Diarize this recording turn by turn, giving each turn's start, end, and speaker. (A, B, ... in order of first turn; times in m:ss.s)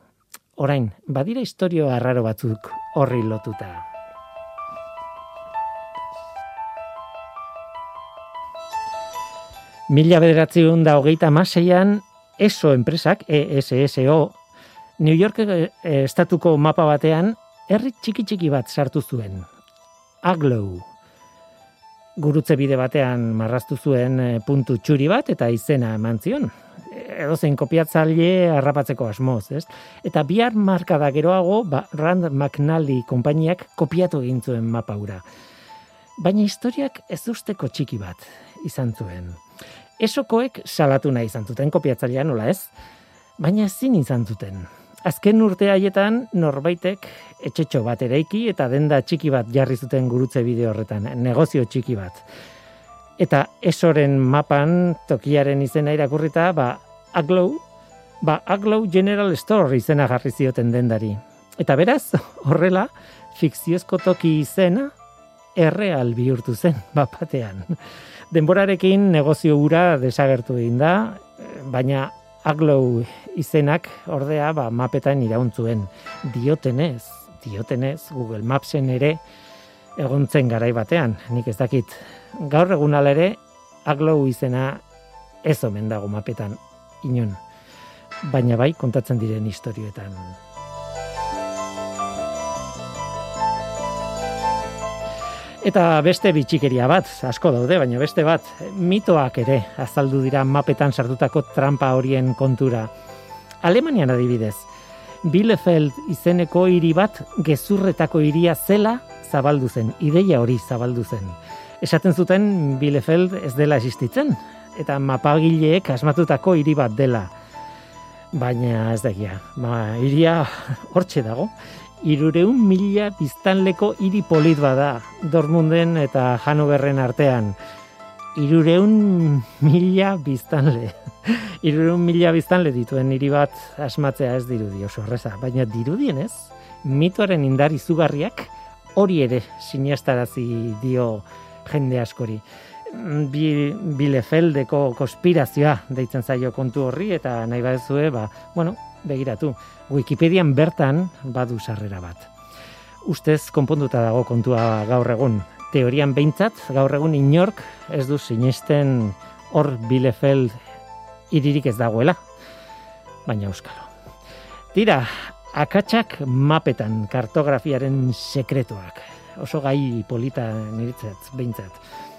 0:00.6-0:03.8 A
0:09.9-0:14.4 A
0:15.0-0:19.5 A
0:20.2-0:20.9 A
0:22.2-0:35.2 A
0:36.2-0:39.4 A
0:40.0-0:42.7 A
0:43.4-0:52.2 A
0:53.2-0:57.6 A
0:58.2-1:04.9 A
1:05.5-1:07.8 A
1:08.3-1:19.2 A
1:20.0-1:24.8 A
1:25.4-1:27.4 A
1:28.2-1:30.4 A
1:35.6-1:42.9 A
1:43.6-1:44.7 A
1:45.2-1:57.3 A
1:58.3-2:07.6 A
2:08.3-2:32.3 A
2:33.0-2:40.6 A
2:41.3-2:42.2 A
2:43.2-2:43.9 A
2:44.7-2:51.8 A